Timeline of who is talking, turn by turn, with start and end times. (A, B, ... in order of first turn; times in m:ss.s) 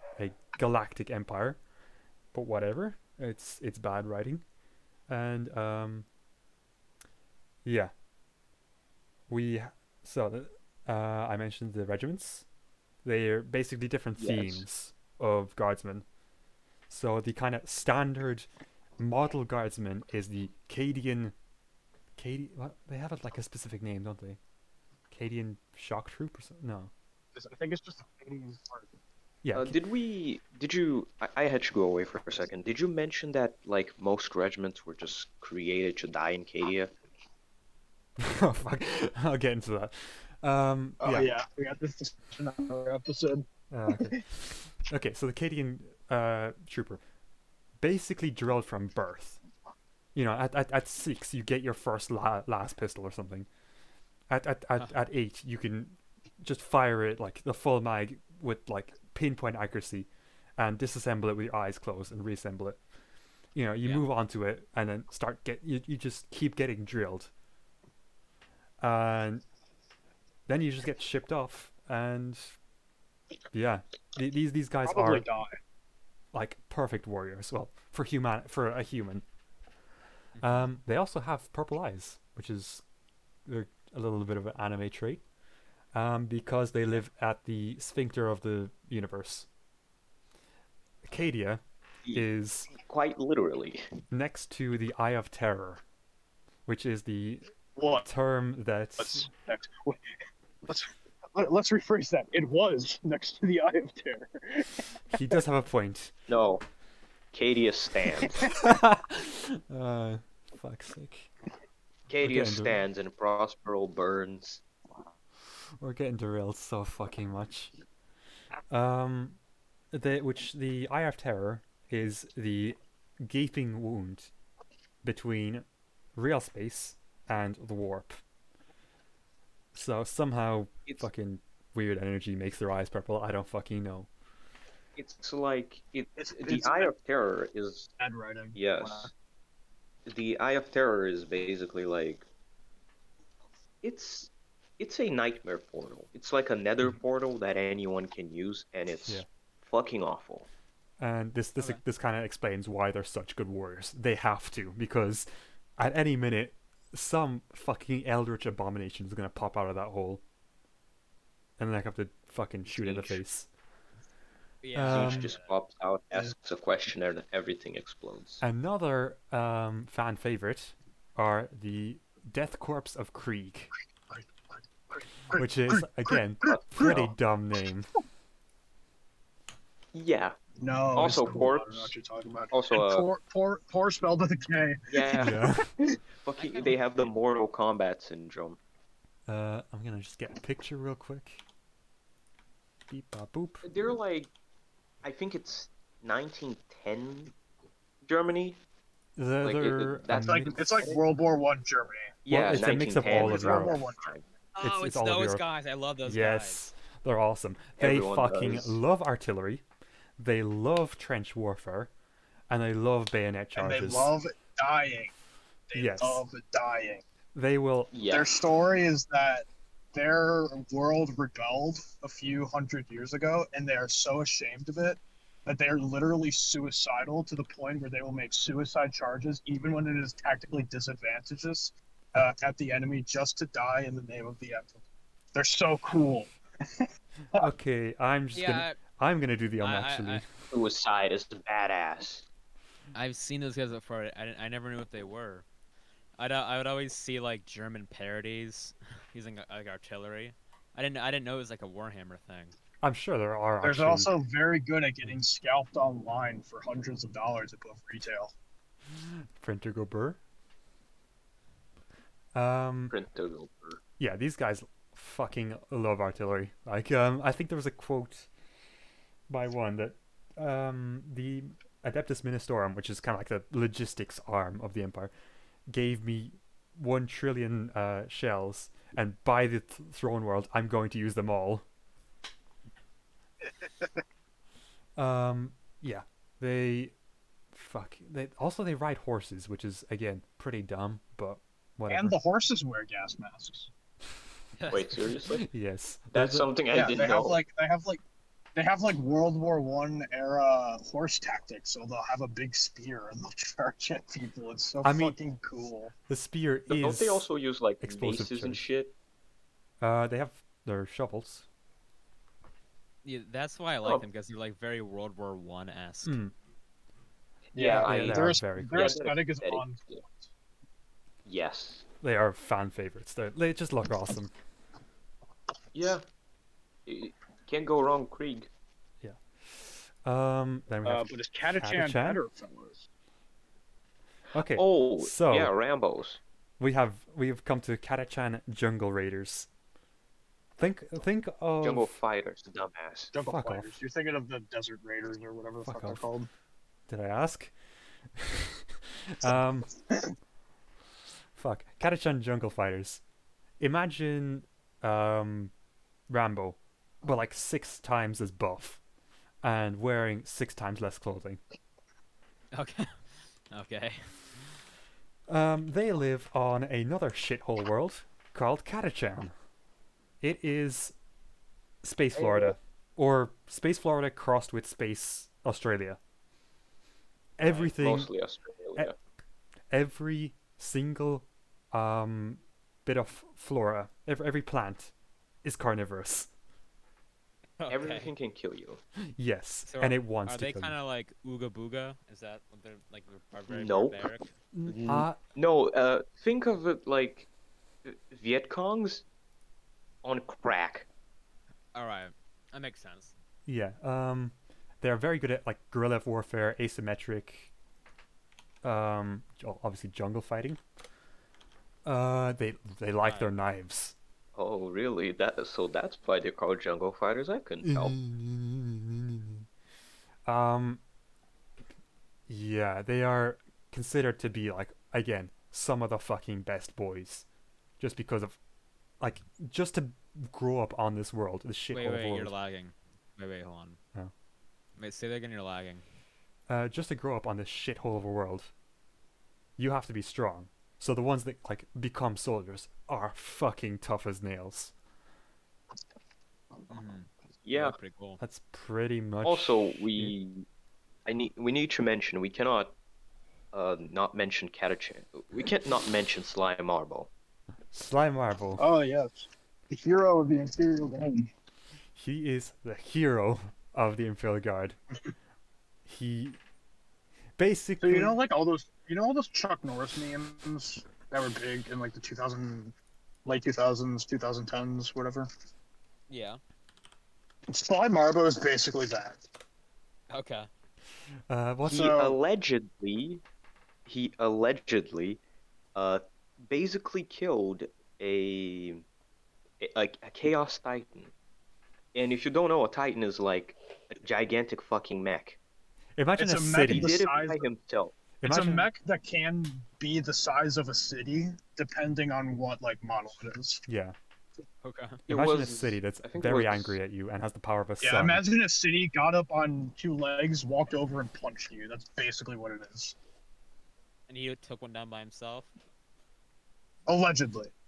0:00.2-0:01.6 A
0:02.3-0:04.4 A
0:05.1-0:06.0 A
0:07.6-0:07.9 A
0:09.3-0:12.4 A
0:13.0-0:16.0 A
0:14.2-0:14.6 B
0:16.9-0:18.5 A
0:19.0-0:21.3 A
0:22.2-0:24.4 A
0:25.1-0:26.9 A
0:27.3-0:28.9 C
0:29.4-0:29.8 A
0:29.5-0:36.9 B
0:38.2-0:41.3 A
0:41.0-0:44.2 C
0:43.7-0:47.0 A
0:47.8-0:49.4 A
0:50.1-0:53.5 A
0:54.3-1:02.8 A
1:03.5-1:07.3 A
1:08.8-1:09.4 A
1:10.5-1:12.5 A
1:13.5-1:15.2 A
1:14.8-1:15.6 C
1:16.3-1:19.2 A
1:20.4-1:20.6 D
1:20.4-1:22.8 A
1:23.4-1:25.2 A
1:25.9-1:29.5 A
1:31.0-1:31.6 A
1:32.0-1:33.8 B
1:32.1-1:32.7 A
1:34.1-1:35.8 A
1:36.6-1:39.3 A
1:37.8-1:38.0 C
1:39.0-1:40.2 C
1:40.7-1:45.2 C
1:45.1-1:46.1 A
1:46.3-1:46.6 B
1:47.3-1:48.6 B
1:48.4-1:51.3 A
1:52.1-1:54.6 B
1:52.2-1:52.8 A
1:55.8-1:57.7 A
1:58.7-1:59.4 A
1:59.9-2:04.3 A
2:05.0-2:08.2 A
2:09.7-2:14.1 A
2:15.0-2:17.9 B
2:16.2-2:16.9 C
2:18.0-2:19.1 C
2:18.5-2:19.1 B
2:20.1-2:22.2 B
2:23.8-2:30.5 B
2:31.0-2:40.2 A
2:41.6-2:43.5 A
2:42.6-2:43.2 B
2:44.6-2:45.5 D
2:44.7-2:45.3 A
2:44.8-2:48.4 B
2:48.4-2:53.7 A
2:54.1-2:57.1 C
2:55.3-2:57.9 A
2:56.5-2:57.1 B
2:59.9-3:00.4 B
3:00.6-3:05.5 C
3:00.9-3:01.9 B
3:02.5-3:03.1 B
3:04.9-3:05.4 B
3:05.2-3:05.6 A
3:06.2-3:08.6 B
3:06.4-3:06.8 D
3:09.3-3:11.4 A
3:12.9-3:13.6 A
3:13.6-3:14.3 B
3:15.0-3:17.3 B
3:18.0-3:18.6 B
3:19.2-3:20.7 A
3:19.4-3:21.0 B
3:20.2-3:22.2 C
3:22.2-3:24.3 B
3:22.3-3:23.8 A
3:23.0-3:24.1 C
3:24.5-3:26.6 D
3:24.6-3:25.4 A
3:26.0-3:29.6 A
3:27.8-3:28.7 B
3:30.2-3:31.9 A
3:32.5-3:34.1 A
3:33.6-3:35.1 C
3:35.7-3:37.0 C
3:35.7-3:36.2 A
3:37.3-3:37.9 A
3:37.9-3:38.3 B
3:38.1-3:54.8 C
3:55.3-3:57.5 C
3:57.3-4:00.3 A
3:58.3-3:58.8 D
3:59.6-4:00.2 D
4:00.5-4:02.2 B
4:02.9-4:05.4 D
4:06.2-4:12.5 D
4:12.8-4:14.1 A
4:13.6-4:18.3 C
4:18.9-4:20.2 A
4:22.3-4:22.9 A
4:22.9-4:23.8 B
4:24.0-4:28.3 A
4:29.3-4:35.1 A
4:35.7-4:41.6 A
4:45.0-4:46.9 A
4:47.5-4:52.2 A
4:51.9-4:53.7 C
4:54.6-4:55.2 D
4:54.7-4:55.4 B
4:55.3-4:56.5 A
4:56.1-4:57.4 B
4:56.7-4:58.0 C
4:58.6-5:05.9 C
5:04.8-5:05.2 A
5:06.1-5:07.3 A
5:06.7-5:08.9 B
5:07.8-5:08.6 A
5:09.8-5:11.4 A
5:13.0-5:16.1 D
5:16.0-5:16.3 A
5:17.5-5:20.1 C
5:17.6-5:20.0 B
5:17.8-5:18.9 A
5:21.2-5:21.9 B
5:22.0-5:24.3 A
5:25.7-5:26.0 B
5:26.8-5:28.5 B
5:29.0-5:32.2 A
5:30.8-5:32.9 C
5:34.3-5:35.5 A
5:34.5-5:36.2 B
5:36.6-5:39.5 A
5:40.6-5:41.9 A
5:41.6-5:43.1 B
5:43.1-5:46.3 C
5:43.2-5:43.6 A
5:45.6-5:46.0 A
5:46.9-5:47.5 A
5:48.1-5:49.7 A
5:51.3-5:53.0 A
5:53.6-5:55.5 A
5:56.1-5:58.8 A
5:59.4-6:01.4 A
6:02.5-6:04.4 D
6:05.3-6:09.3 A
6:10.2-6:10.9 A
6:11.8-6:16.0 A
6:12.2-6:12.5 B
6:17.4-6:18.1 A
6:17.4-6:18.9 B
6:19.7-6:24.9 A
6:25.4-6:26.3 A
6:27.6-6:28.1 D
6:27.7-6:28.8 B
6:29.2-6:30.8 A
6:29.6-6:34.3 D
6:33.5-6:34.1 B
6:34.5-6:35.2 A
6:34.6-6:37.3 B
6:37.8-6:39.0 B
6:40.0-6:40.8 B
6:41.7-6:43.1 D
6:43.4-6:47.5 A
6:48.6-6:50.6 A
6:51.8-6:53.9 A
6:53.0-6:53.3 D
6:54.3-6:58.0 B
6:57.6-6:59.5 A
7:00.2-7:00.8 A
7:02.3-7:07.2 A
7:07.8-7:08.4 A
7:09.0-7:12.3 A
7:11.7-7:13.8 D
7:14.8-7:15.8 D
7:16.5-7:18.5 A
7:19.6-7:24.7 A
7:26.7-7:28.2 D
7:27.4-7:27.8 B
7:28.2-7:30.1 A
7:29.2-7:30.4 B
7:31.0-7:32.7 B
7:33.5-7:37.1 B
7:37.7-7:38.6 A
7:38.6-7:41.3 C
7:41.9-7:44.8 A
7:45.8-7:46.4 A
7:47.4-7:48.2 A
7:47.8-7:55.3 C
7:56.1-7:56.4 D
7:57.5-7:59.2 C
8:00.1-8:00.5 D
8:01.3-8:01.9 A
8:01.7-8:02.2 C
8:01.7-8:03.2 B
8:03.8-8:05.2 B
8:05.7-8:08.8 B
8:09.6-8:11.1 B
8:11.9-8:15.4 B
8:16.0-8:16.9 A
8:16.2-8:17.4 C
8:16.7-8:18.0 B
8:18.2-8:18.7 A
8:18.2-8:23.6 C
8:23.7-8:24.0 A
8:24.6-8:25.0 D
8:25.1-8:26.8 B
8:25.1-8:28.2 A
8:27.8-8:32.9 C
8:34.1-8:35.5 D
8:36.9-8:37.5 C